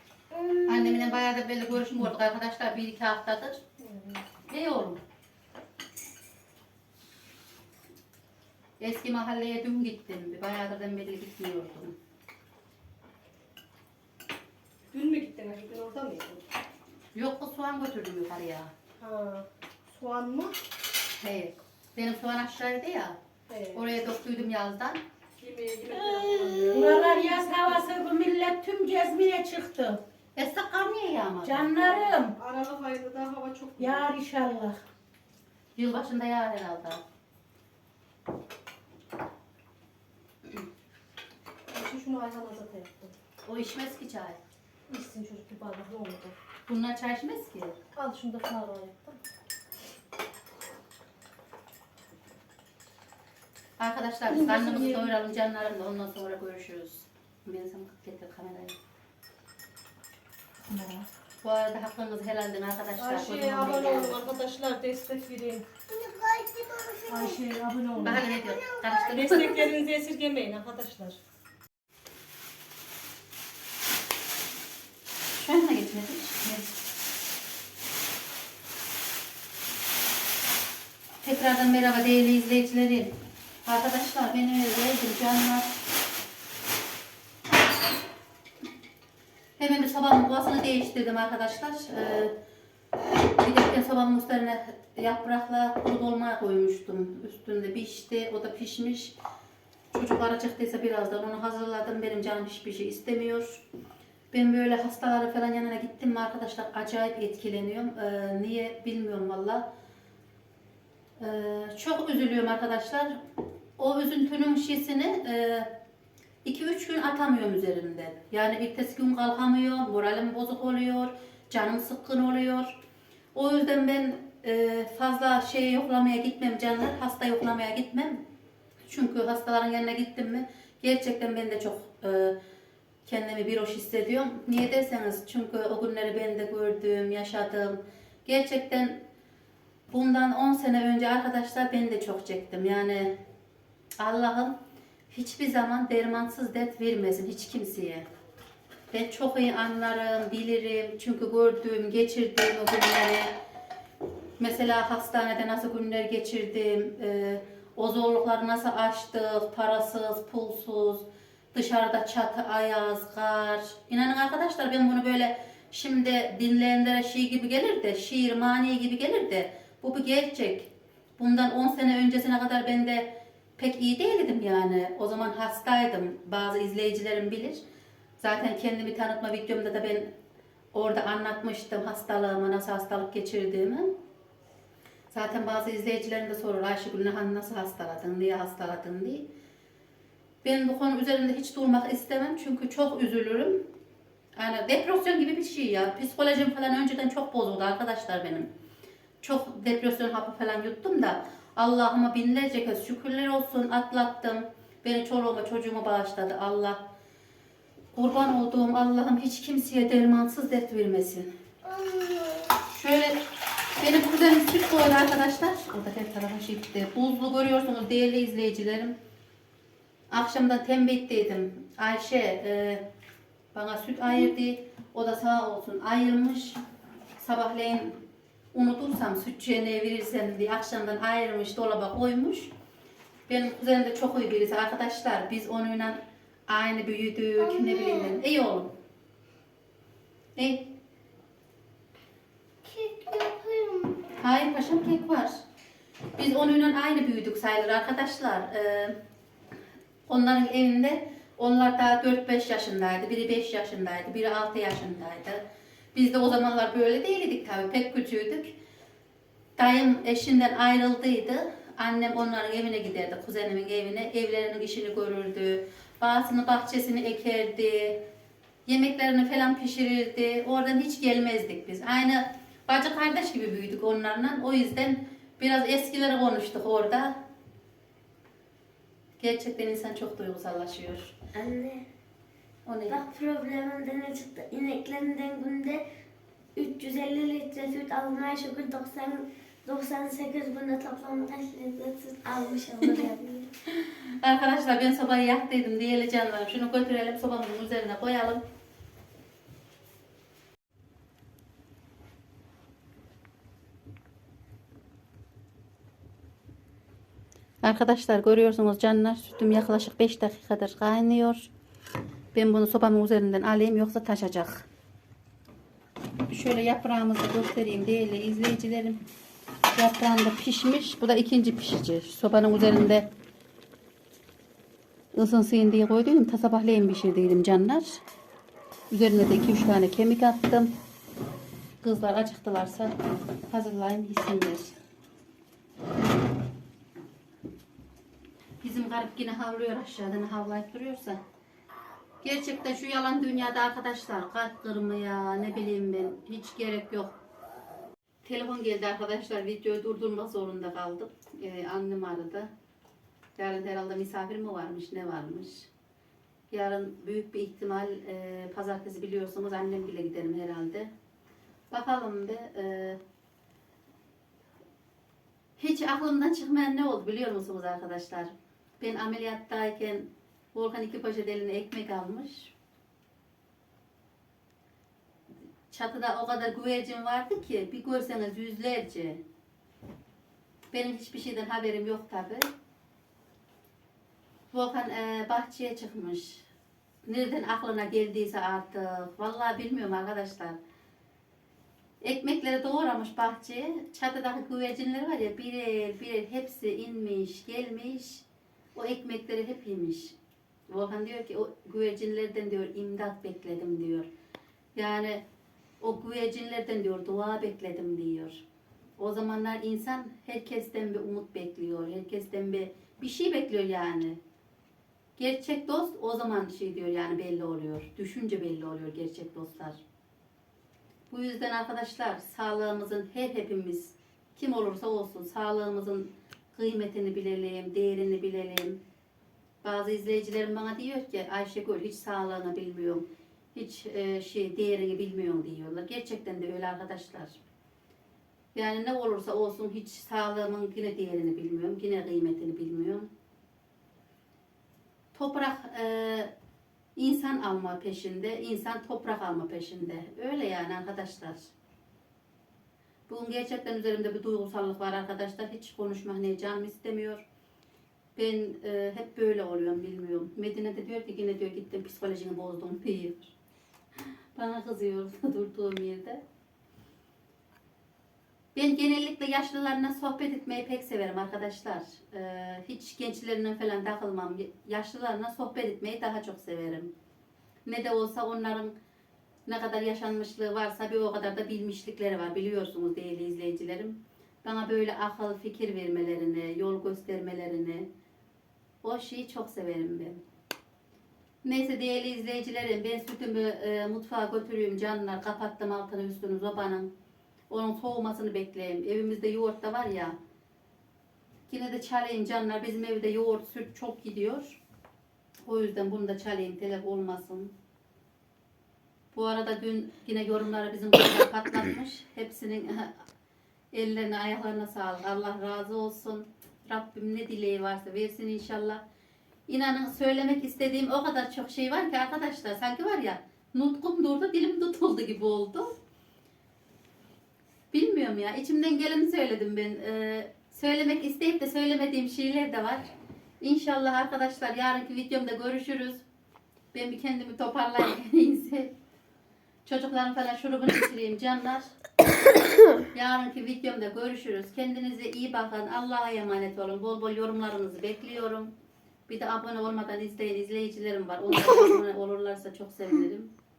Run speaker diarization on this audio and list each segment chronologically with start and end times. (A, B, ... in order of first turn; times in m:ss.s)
0:00.3-0:01.2 A
0:00.6-0:03.6 B
0:03.8-0:04.2 C
0:04.5-0:05.0 B
0:08.8-0:11.9 B
0:14.9-0:16.4 C
0:17.1-0:18.7 B
0:19.0-0:20.5 C
0:21.2-0:23.2 B
0:23.5-0:23.8 C
0:23.7-0:25.0 B
0:25.4-0:27.4 C
0:26.6-0:30.0 D
0:30.4-0:31.7 B
0:31.4-0:32.3 D
0:32.2-0:34.1 C
0:33.8-0:34.8 D
0:35.8-0:37.0 B
0:41.7-0:43.1 C
0:43.4-0:44.4 B
0:44.9-0:46.4 C
0:46.7-0:47.8 B
0:48.0-0:49.2 C
0:53.8-0:58.8 B
0:54.3-0:55.1 C
1:00.6-1:01.1 C
1:01.4-1:04.2 B
1:03.0-1:05.6 C
1:05.9-1:07.4 A
1:07.1-1:08.3 C
1:08.0-1:09.6 B
1:08.1-1:09.4 A
1:09.0-1:11.2 C
1:15.4-1:16.7 B
1:21.2-1:23.1 B
1:23.6-1:25.7 B
1:29.6-1:32.4 B
1:33.4-1:39.1 B
1:39.9-1:43.6 B
1:44.3-1:49.6 B
1:51.2-1:53.2 B
1:53.8-1:55.7 B
1:56.4-2:02.8 B
2:03.3-2:08.2 B
2:08.9-2:12.4 B
2:13.0-2:19.0 B
2:19.9-2:23.2 B
2:24.0-2:24.6 B
2:25.1-2:28.0 B
2:28.9-2:33.3 B
2:34.4-2:57.6 B
2:58.2-3:00.1 B
3:00.7-3:03.9 B
3:05.1-3:09.3 B
3:10.4-3:13.6 B
3:14.4-3:18.5 B
3:19.2-3:26.9 B
3:27.9-3:31.3 B
3:31.7-3:32.5 A
3:32.6-3:33.2 B
3:33.8-3:39.0 B
3:40.1-3:42.9 B
3:43.5-3:46.6 B
3:47.2-3:52.5 B
3:53.3-3:58.7 B
3:57.4-3:58.2 A
4:00.4-4:00.7 B
4:02.6-4:04.0 A
4:04.2-4:05.3 B
4:06.2-4:09.0 B
4:10.1-4:15.4 B
4:15.9-4:18.6 B
4:19.6-4:28.0 B
4:28.7-4:37.2 B
4:39.2-4:41.1 B
4:41.3-4:41.9 A
4:42.6-4:43.0 B
4:42.9-4:45.8 A
4:46.6-4:53.5 A
4:53.8-4:58.4 B
5:07.6-5:11.5 B
5:12.3-5:14.6 B
5:16.3-5:19.0 B
5:19.7-5:23.1 B
5:25.1-5:28.0 B
5:28.9-5:30.7 B
5:31.8-5:32.9 B
5:33.5-5:34.7 B
5:38.6-5:41.2 B
5:42.2-5:47.1 B
5:48.2-5:52.5 B
5:53.4-5:55.7 B
5:56.5-6:00.9 B
6:01.7-6:03.0 B
6:05.6-6:12.5 B
6:15.7-6:19.2 B
6:20.7-6:22.5 B
6:24.5-6:26.4 B
6:27.0-6:30.6 B
6:32.0-6:40.2 B
6:40.7-6:44.1 B
6:44.8-6:45.2 B
6:45.8-6:48.4 B
6:49.0-6:54.2 B
6:55.2-6:59.8 B
7:01.1-7:08.8 B
7:09.6-7:13.0 B
7:13.5-7:17.4 B
7:18.5-7:23.1 B
7:25.1-7:26.3 B
7:27.0-7:31.5 B
7:33.1-7:37.2 B
7:38.2-7:43.3 B
7:44.3-7:46.2 B
7:48.5-7:56.9 B
7:57.6-7:58.7 B
7:59.5-8:07.9 B
8:08.8-8:10.2 B
8:11.4-8:16.9 B
8:17.5-8:20.2 B
8:21.5-8:24.6 B
8:25.4-8:27.5 B
8:29.1-8:32.9 B
8:33.7-8:38.8 B
8:39.5-8:45.7 B
8:47.7-8:52.9 B
8:53.4-8:56.0 B
8:56.7-8:58.7 B
8:59.6-9:01.7 B
9:02.9-9:08.5 B
9:09.1-9:13.3 B